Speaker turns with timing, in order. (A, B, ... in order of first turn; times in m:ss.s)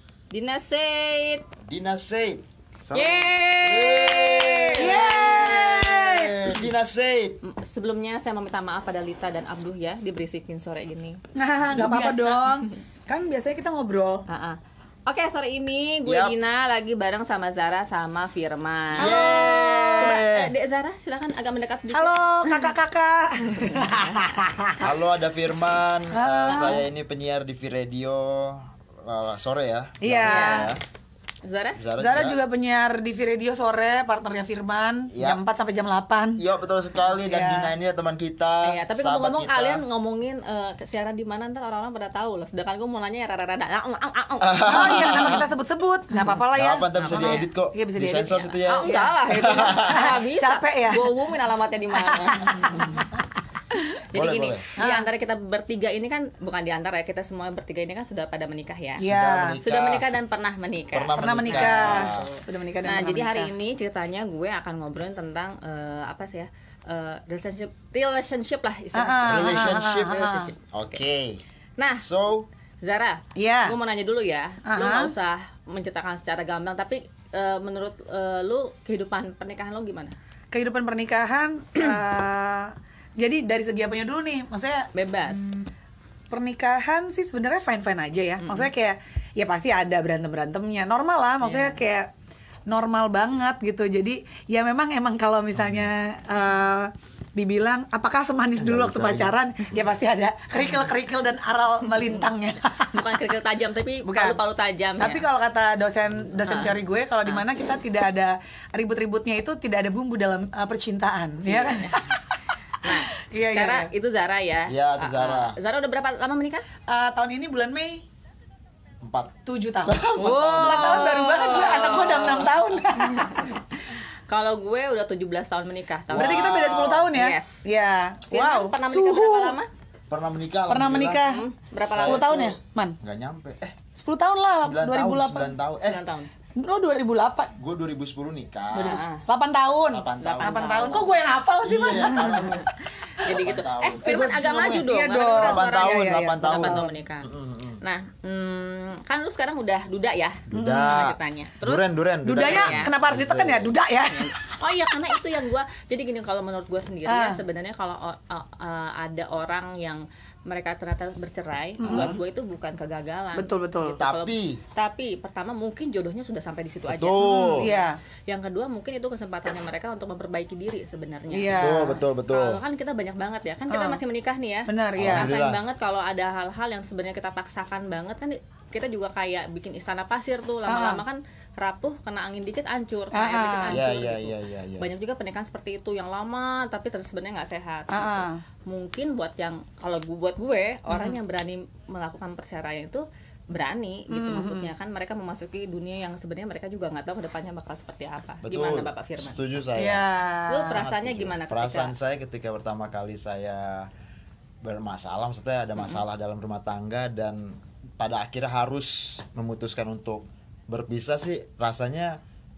0:00.3-0:01.5 A
0:01.6-0:07.4 B
0:02.9-0:05.5 A
0:04.8-0:06.6 C
0:07.4-0:11.2 A
0:11.4-0:14.2 C
0:11.7-0:12.5 A
0:14.3-0:22.7 A
0:16.0-0:16.4 B
0:19.0-0:20.1 C
0:19.0-0:20.5 B
0:21.9-0:24.9 C
0:23.5-0:24.4 A
0:24.8-0:30.8 B
0:26.1-0:26.8 C
0:30.0-0:30.7 C
0:30.2-0:30.7 A
0:31.4-0:31.8 A
0:31.8-0:32.4 B
0:32.0-0:36.4 C
0:35.1-0:35.4 B
0:36.4-0:39.8 B
0:37.1-0:37.7 C
0:38.6-0:45.1 A
0:44.4-0:45.5 B
0:44.6-0:51.1 C
0:46.2-0:50.2 B
0:47.1-0:47.4 A
0:48.6-0:52.9 A
0:51.9-0:53.0 C
0:54.1-0:59.1 A
0:54.1-0:54.7 B
0:54.8-0:55.1 C
0:59.0-1:00.1 B
0:59.0-0:59.6 C
0:59.6-1:10.6 A
1:00.9-1:02.3 B
1:01.2-1:03.5 C
1:08.9-1:10.5 C
1:09.3-1:11.4 B
1:11.8-1:12.1 A
1:12.0-1:12.5 B
1:12.8-1:20.2 A
1:13.4-1:13.8 C
1:14.7-1:15.1 C
1:20.5-1:25.6 C
1:24.9-1:25.6 A
1:26.3-1:32.1 C
1:28.4-1:28.7 A
1:31.4-1:31.8 A
1:32.7-1:43.2 C
1:35.6-1:35.9 B
1:38.6-1:39.8 B
1:42.9-1:45.3 A
1:44.1-1:44.4 C
1:45.0-1:52.2 C
1:46.4-1:47.4 A
1:51.4-1:52.0 A
1:52.8-1:56.6 A
1:52.9-1:53.9 C
1:54.7-1:55.6 B
1:56.9-1:58.0 C
1:59.0-2:01.4 B
1:59.5-2:03.5 C
2:00.2-2:03.6 A
2:04.3-2:07.7 A
2:06.1-2:07.1 B
2:06.1-2:09.6 C
2:08.3-2:09.7 A
2:10.1-2:11.3 B
2:10.7-2:13.0 C
2:11.3-2:12.5 A
2:11.8-2:13.9 B
2:13.9-2:15.6 C
2:14.6-2:16.1 B
2:15.8-2:16.3 A
2:16.6-2:17.5 C
2:17.6-2:19.1 B
2:18.7-2:19.2 A
2:19.3-2:22.6 C
2:19.8-2:21.1 B
2:20.2-2:21.1 A
2:21.6-2:27.8 B
2:23.2-2:27.3 A
2:24.0-2:26.9 C
2:27.8-2:32.9 A
2:30.5-2:33.8 B
2:30.5-2:31.0 C
2:32.2-2:34.4 C
2:34.2-3:19.4 A
2:37.1-2:37.4 C
2:41.8-2:42.2 C
2:43.4-2:44.0 C
2:43.9-2:44.6 B
2:46.9-2:47.7 B
2:47.2-2:48.0 C
2:51.3-2:52.0 C
2:51.6-2:52.6 B
2:53.7-2:54.0 C
2:54.7-2:55.3 C
2:55.0-2:55.6 B
3:00.7-3:01.0 C
3:03.1-3:03.8 C
3:03.7-3:04.9 B
3:07.9-3:08.4 C
3:10.9-3:11.2 C
3:14.1-3:14.7 C
3:18.4-3:20.1 B
3:19.8-3:20.8 C
3:20.5-3:22.0 A
3:20.6-3:23.9 B
3:24.6-3:32.2 B